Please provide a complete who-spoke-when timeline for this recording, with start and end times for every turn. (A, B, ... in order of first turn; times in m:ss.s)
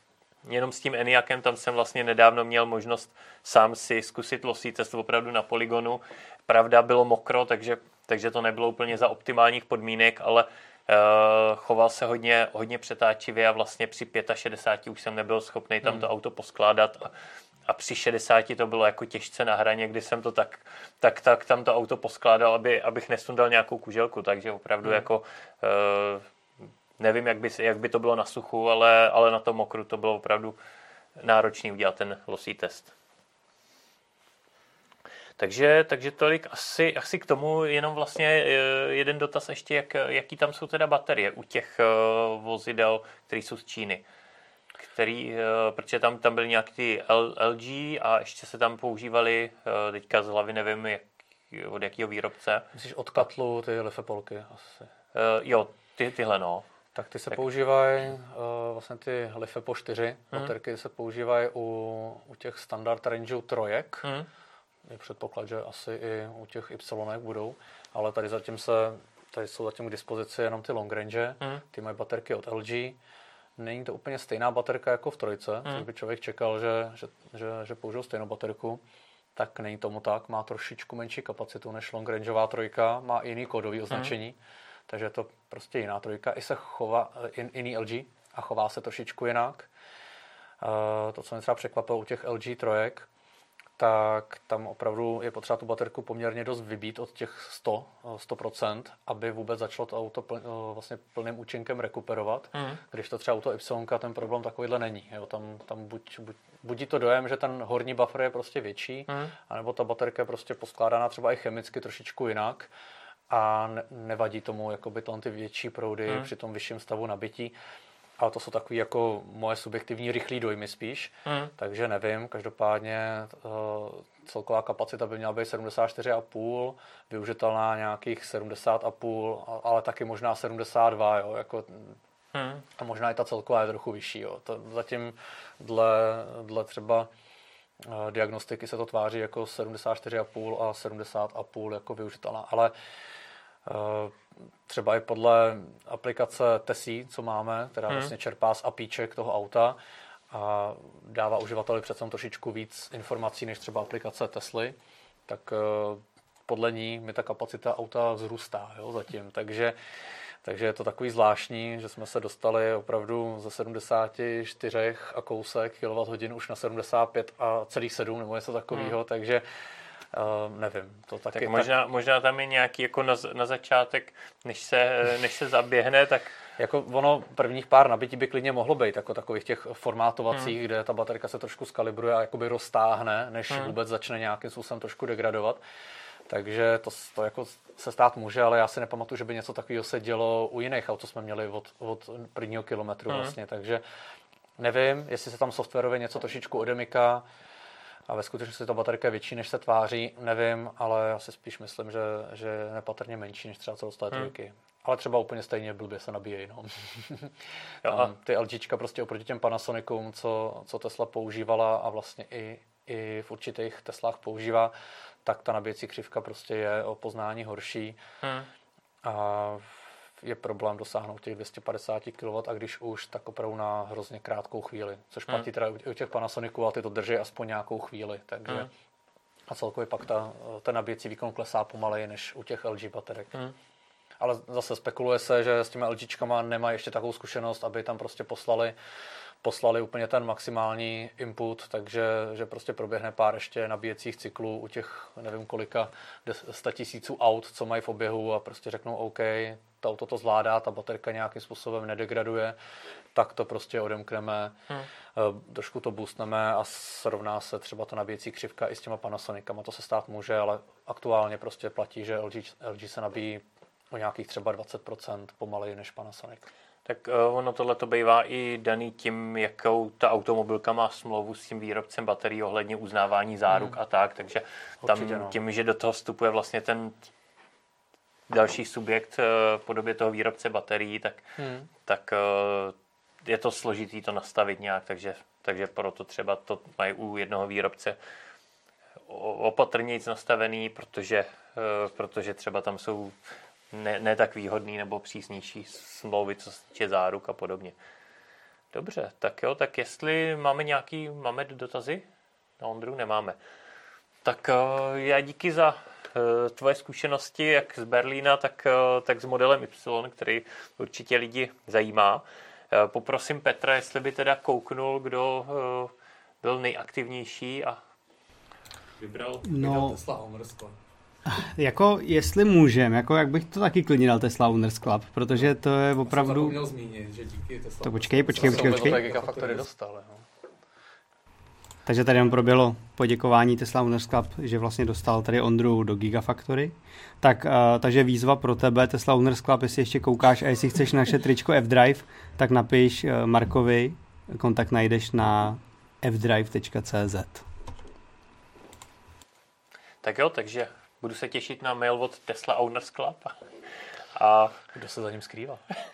0:00.4-0:17.1 A
0:17.7-0:26.3 A
0:27.0-0:30.6 A
0:31.2-0:32.9 A
0:35.4-0:44.0 A
0:44.8-0:52.6 A
0:52.7-0:54.9 B
0:55.1-0:56.6 A
0:56.9-1:04.1 B
1:04.9-1:13.0 B
1:13.6-1:18.8 B
1:19.3-1:29.7 B
1:30.6-1:33.1 B
1:33.8-1:52.7 B
1:53.3-1:57.5 B
1:58.2-2:12.0 B
2:12.3-2:12.6 A
2:12.8-2:17.1 B
2:17.8-2:22.7 B
2:23.6-2:29.8 B
2:30.3-2:34.8 B
2:35.3-2:39.8 B
2:40.4-2:49.4 B
2:50.1-2:51.7 B
2:51.3-2:56.4 A
2:56.6-3:05.6 B
3:06.3-3:13.8 B
3:13.1-3:13.3 A
3:14.6-3:17.2 B
3:18.1-3:38.0 B
3:27.8-3:28.1 A
3:38.2-3:38.5 A
3:39.0-3:48.7 B
3:49.5-3:53.3 B
3:54.2-3:58.8 B
3:59.4-4:12.6 B
4:13.1-4:14.6 B
4:15.1-4:26.5 B
4:26.9-4:37.1 A
4:33.5-4:33.7 B
4:34.8-4:35.4 B
4:38.3-4:41.3 A
4:41.4-4:41.7 B
4:41.8-4:48.0 A
4:49.1-4:53.2 A
4:53.7-4:57.7 A
4:58.7-5:02.0 A
5:02.6-5:03.4 A
5:04.2-5:17.8 A
5:19.0-5:19.4 A
5:19.4-5:20.0 C
5:19.5-5:20.8 B
5:21.2-5:26.6 C
5:26.0-5:30.2 B
5:27.8-5:29.4 C
5:31.9-5:47.4 C
5:50.0-5:53.4 A
5:54.2-5:54.6 A
5:54.7-5:55.6 B